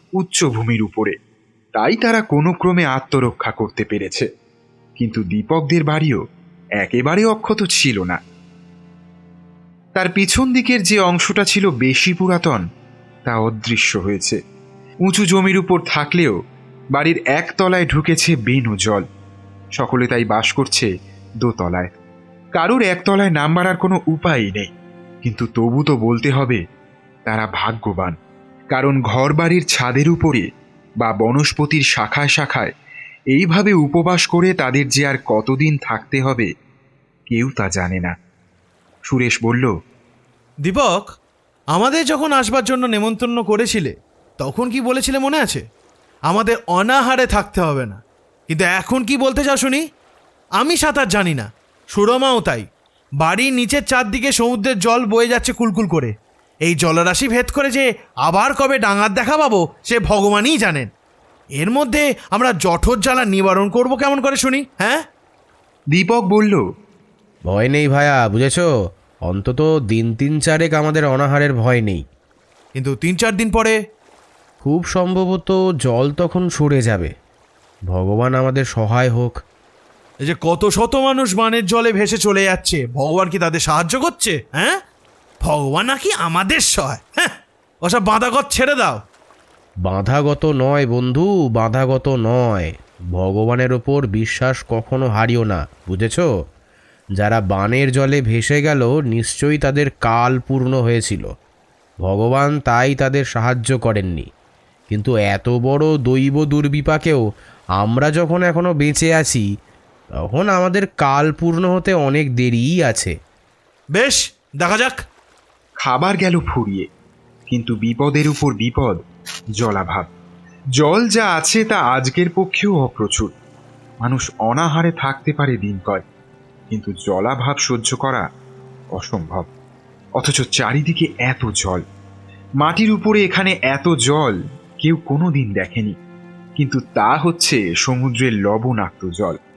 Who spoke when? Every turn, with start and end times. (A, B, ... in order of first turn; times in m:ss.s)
0:00.2-0:01.1 A
0:01.8-0:04.2 A
0:05.0-0:06.2 A
0:06.8-0:08.2 A
0:10.0-0:12.6 A
0:13.3-0:14.4 A
0:15.1-0:16.3 A
0:17.0-0:19.0 A
0:19.8-0:20.9 A
0:21.4-0:21.9 A
0:22.6-0:24.7 A
0:25.2-0:26.6 A
0:27.3-0:28.1 A
0:28.7-0:30.4 A
0:31.0-0:32.7 A
0:33.3-0:36.5 A
0:37.3-0:38.1 A
0:39.1-0:39.7 A
0:40.6-0:41.1 B
0:41.7-0:45.6 B
0:46.3-0:49.8 B
0:50.6-0:52.6 B
0:53.2-0:56.1 B
0:56.6-1:00.9 B
1:01.6-1:05.0 B
1:05.9-1:06.6 A
1:07.5-1:08.7 C
1:09.3-1:12.0 C
1:12.8-1:13.8 B
1:14.6-1:17.1 C
1:17.9-1:19.4 C
1:20.2-1:24.8 B
1:25.4-1:27.3 B
1:27.8-1:29.0 B
1:29.8-1:36.3 C
1:37.2-1:41.2 C
1:42.0-1:44.2 C
1:44.9-1:47.2 C
1:47.8-1:49.4 C
1:50.3-1:53.1 C
1:54.0-1:55.0 B
1:55.8-1:56.8 A
1:57.5-1:59.0 A
1:59.6-2:00.1 A
2:00.8-2:03.3 A
2:04.0-2:06.0 A
2:06.7-2:08.2 A
2:09.0-2:09.4 A
2:10.2-2:11.8 A
2:12.6-2:15.9 A
2:16.6-2:19.4 A